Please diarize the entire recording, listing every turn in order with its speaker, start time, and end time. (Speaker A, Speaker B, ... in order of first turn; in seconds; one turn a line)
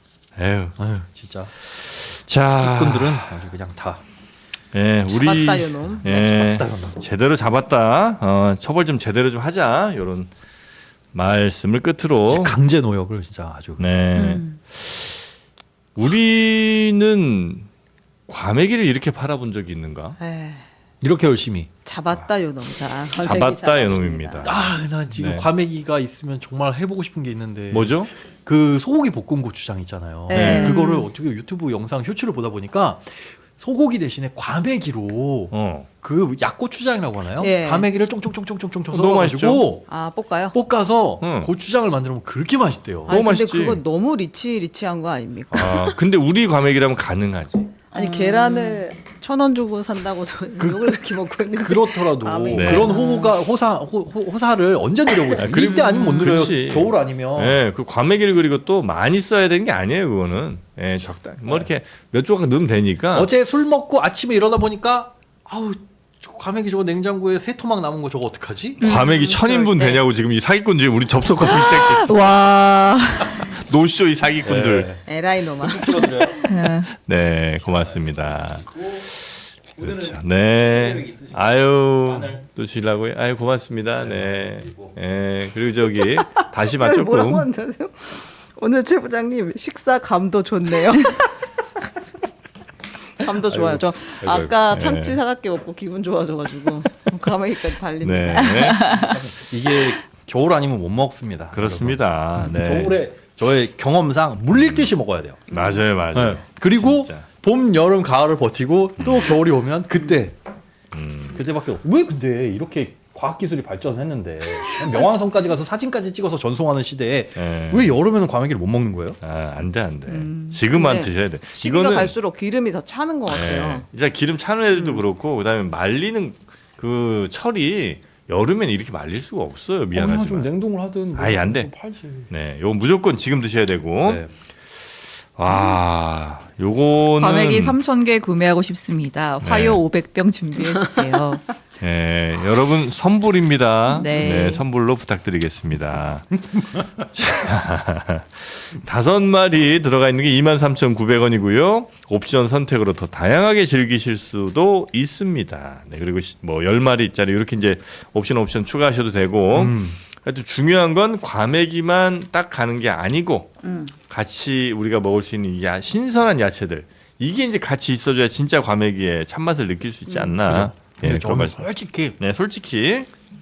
Speaker A: 0.3-0.8
Speaker B: 0.8-1.5
Speaker A: 1.5-3.4
Speaker B: 2.5-4.0
Speaker A: 4.7-10.3
Speaker C: 5.1-6.3
Speaker B: 6.1-7.0
Speaker A: 11.1-12.5
Speaker B: 12.3-13.9
Speaker A: 13.8-15.1
Speaker D: 14.1-14.6
Speaker A: 15.9-17.7
Speaker A: 18.3-20.2
Speaker C: 20.2-20.6
Speaker B: 21.0-21.7
Speaker C: 21.8-24.4
Speaker A: 23.1-25.5
Speaker D: 23.3-24.6
Speaker B: 24.4-39.9
Speaker A: 27.7-28.1
Speaker C: 30.3-31.1
Speaker A: 30.3-30.7
Speaker D: 30.6-31.0
Speaker A: 35.5-35.9
Speaker C: 37.4-37.9
Speaker A: 38.9-39.7
Speaker C: 39.9-40.5
Speaker B: 40.5-43.2
Speaker A: 41.2-41.5
Speaker A: 43.1-43.8
Speaker C: 43.1-46.0
Speaker A: 45.5-47.7
Speaker C: 47.9-53.3
Speaker D: 47.9-48.8
Speaker B: 50.6-51.0
Speaker B: 51.5-57.6
Speaker A: 52.5-52.9
Speaker A: 55.4-63.3
Speaker D: 55.6-56.3
Speaker B: 63.1-68.8
Speaker A: 68.8-72.2
Speaker D: 68.8-70.0
Speaker D: 71.4-73.6
Speaker A: 73.4-74.9
Speaker B: 74.4-76.5
Speaker C: 75.0-76.1
Speaker D: 76.3-76.9
Speaker A: 76.8-87.5
Speaker B: 77.8-79.0
Speaker B: 79.7-82.4
Speaker B: 84.0-84.9
Speaker C: 86.3-91.5
Speaker C: 93.2-98.8
Speaker B: 93.4-94.5
Speaker A: 94.2-95.2
Speaker A: 98.0-99.0
Speaker D: 98.4-99.1
Speaker B: 98.8-110.4
Speaker A: 101.5-103.0
Speaker A: 104.6-104.9
Speaker A: 105.5-107.2
Speaker A: 109.0-109.3
Speaker A: 110.9-111.4
Speaker B: 111.3-119.2
Speaker A: 117.3-117.9
Speaker A: 119.2-122.1
Speaker D: 120.1-120.6
Speaker C: 120.7-123.9
Speaker A: 123.3-130.5
Speaker B: 129.9-132.3
Speaker A: 131.1-131.7
Speaker A: 132.3-137.8
Speaker B: 134.0-134.3
Speaker D: 135.5-135.8
Speaker D: 137.2-141.5
Speaker A: 139.4-139.8
Speaker A: 141.8-146.6
Speaker D: 143.9-144.6
Speaker A: 147.2-173.1
Speaker B: 159.5-160.0
Speaker D: 163.6-163.9
Speaker B: 170.3-172.2